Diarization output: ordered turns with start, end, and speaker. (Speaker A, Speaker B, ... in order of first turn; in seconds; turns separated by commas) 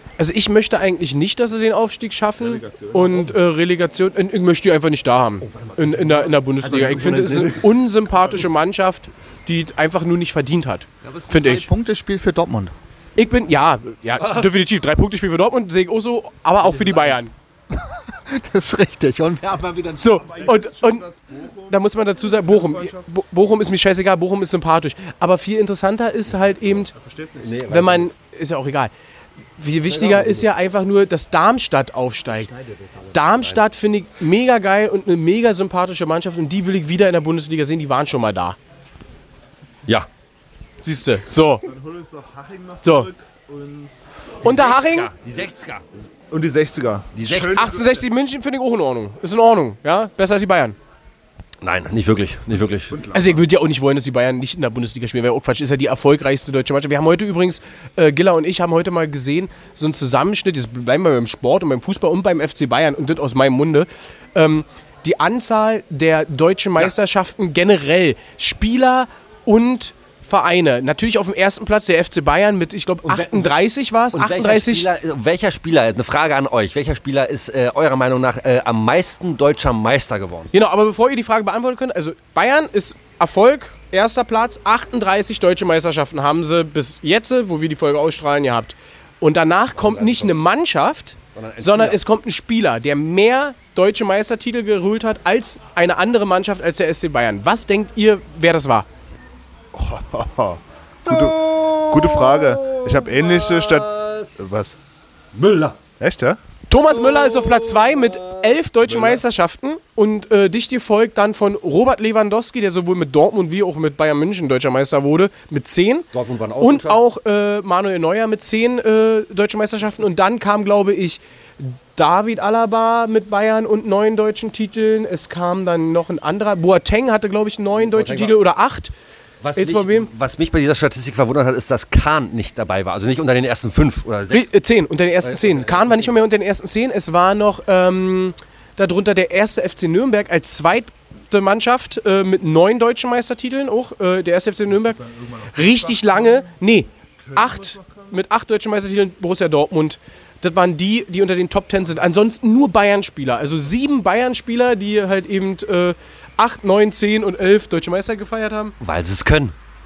Speaker A: 0.2-11.7, Speaker B: 2.4-3.4, Speaker C: 5.4-7.6, Speaker D: 11.0-12.7, Speaker A: 13.2-17.3, Speaker C: 14.2-14.5, Speaker C: 16.6-17.2, Speaker D: 17.7-20.5, Speaker A: 20.0-21.1, Speaker B: 20.1-23.1, Speaker A: 21.7-26.9, Speaker B: 26.9-27.6, Speaker C: 27.4-28.1, Speaker A: 27.7-28.9, Speaker A: 29.6-32.5, Speaker C: 29.9-30.5, Speaker C: 33.0-33.6, Speaker A: 33.1-38.6, Speaker A: 40.8-41.7, Speaker B: 41.7-44.0, Speaker A: 42.8-43.1, Speaker A: 44.4-45.1, Speaker C: 44.4-45.8, Speaker B: 46.3-48.1, Speaker C: 47.1-47.8, Speaker A: 47.5-50.8, Speaker C: 51.6-53.0, Speaker B: 52.9-53.4, Speaker A: 53.1-74.9, Speaker C: 73.1-73.6, Speaker C: 74.1-80.5, Speaker A: 80.5-98.9, Speaker C: 89.8-90.4, Speaker C: 91.3-92.0, Speaker B: 99.7-104.8, Speaker C: 101.1-104.8, Speaker C: 105.3-105.8, Speaker B: 106.0-106.4, Speaker A: 106.7-116.1, Speaker C: 107.0-109.2, Speaker C: 116.1-117.0, Speaker A: 116.6-128.9, Speaker C: 127.8-128.4, Speaker C: 129.4-134.5, Speaker A: 129.6-130.1, Speaker A: 134.3-158.8, Speaker C: 135.2-136.2, Speaker B: 145.1-146.2, Speaker B: 147.2-148.1, Speaker C: 158.8-159.5